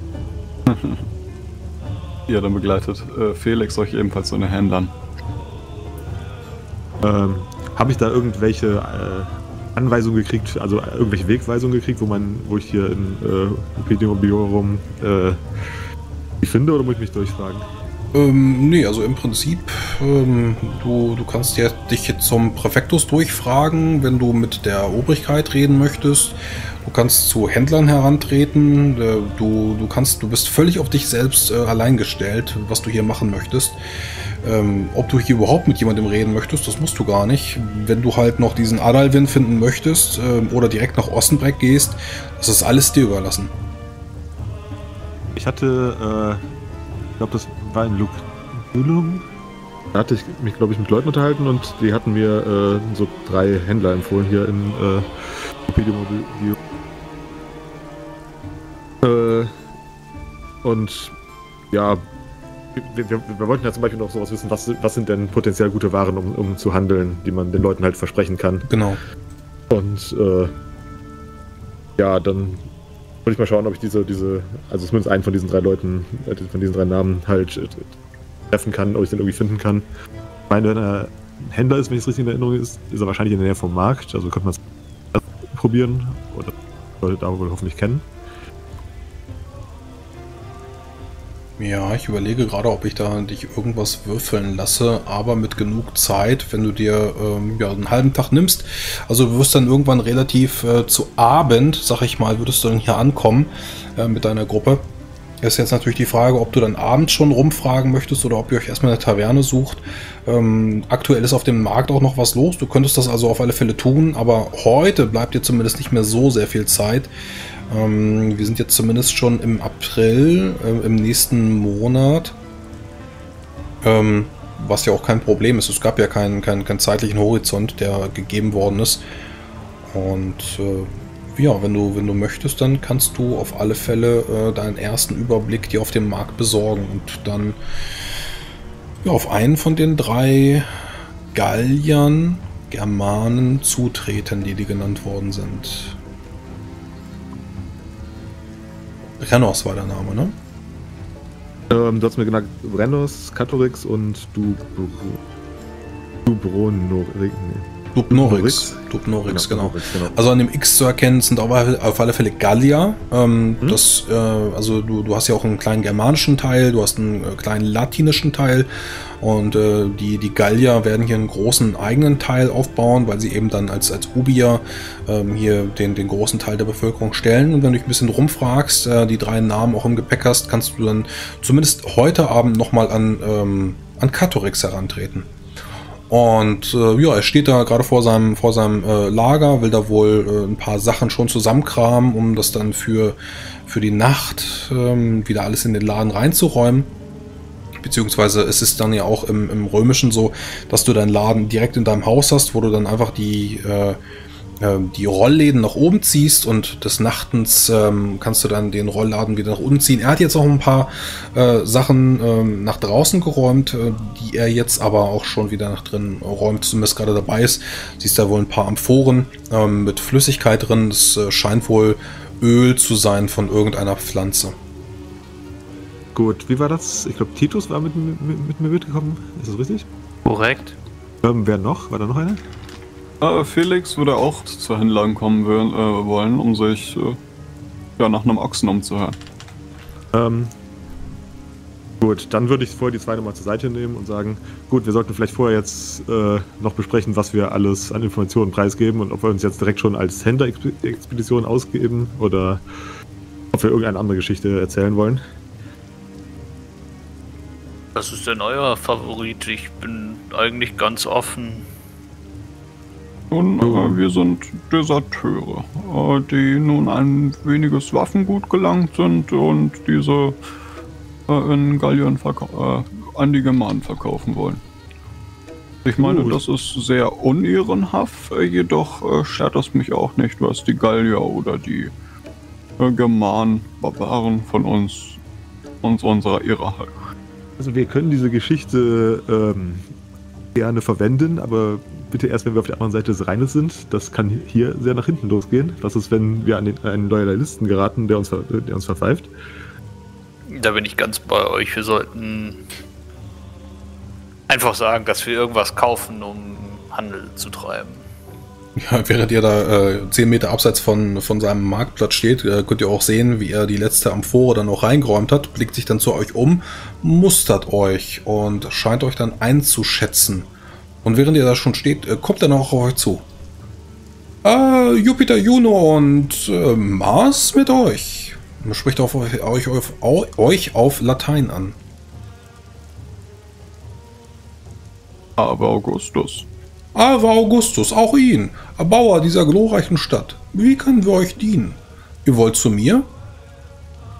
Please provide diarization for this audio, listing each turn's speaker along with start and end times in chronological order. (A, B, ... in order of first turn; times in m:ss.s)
0:00.7-0:01.0 A
0:02.3-0:04.9 A
0:07.0-0:15.4 B
0:16.4-0:17.7 B
0:18.1-0:33.8 C
0:34.4-0:43.5 C
0:45.4-0:46.4 B
0:47.2-0:49.3 B
0:49.9-0:56.6 B
0:59.0-0:59.5 B
1:00.6-1:01.2 B
1:01.7-1:02.1 B
1:02.8-1:08.7 B
1:08.7-1:09.0 C
1:09.7-1:10.5 B
1:12.0-1:12.7 B
1:13.2-1:17.9 B
1:18.5-1:19.9 B
1:20.5-1:24.6 B
1:25.1-1:28.1 B
1:31.6-1:44.9 C
1:45.4-1:57.1 C
1:57.7-2:02.4 C
2:03.8-2:09.0 C
2:09.8-2:17.6 C
2:19.0-2:20.7 C
2:21.3-2:26.0 C
2:29.2-2:30.4 C
2:31.7-2:35.2 B
2:36.3-2:38.8 B
2:38.0-2:48.7 C
2:39.3-2:40.2 B
2:49.2-3:05.3 C
3:06.1-3:16.9 C
3:17.8-3:24.0 C
3:24.6-3:44.6 C
3:46.2-3:49.9 B
3:50.3-3:50.8 D
3:51.2-3:52.4 B
3:53.2-3:57.2 A
3:58.0-3:59.2 A
4:00.1-4:00.5 B
4:02.0-4:12.6 B
4:13.5-4:15.2 B
4:18.0-4:21.7 D
4:23.3-4:30.4 A
4:23.6-4:24.0 B
4:31.3-4:34.6 A
4:35.8-4:41.9 A
4:36.0-4:36.4 B
4:42.8-4:45.2 A
4:45.8-4:47.0 A
4:47.6-4:49.9 B
4:50.6-4:59.3 B
5:00.5-5:02.6 D
5:04.5-5:08.0 D
5:08.8-5:20.5 C
5:21.0-5:23.2 C
5:24.4-5:31.8 C
5:35.4-5:36.5 A
5:37.0-5:43.1 C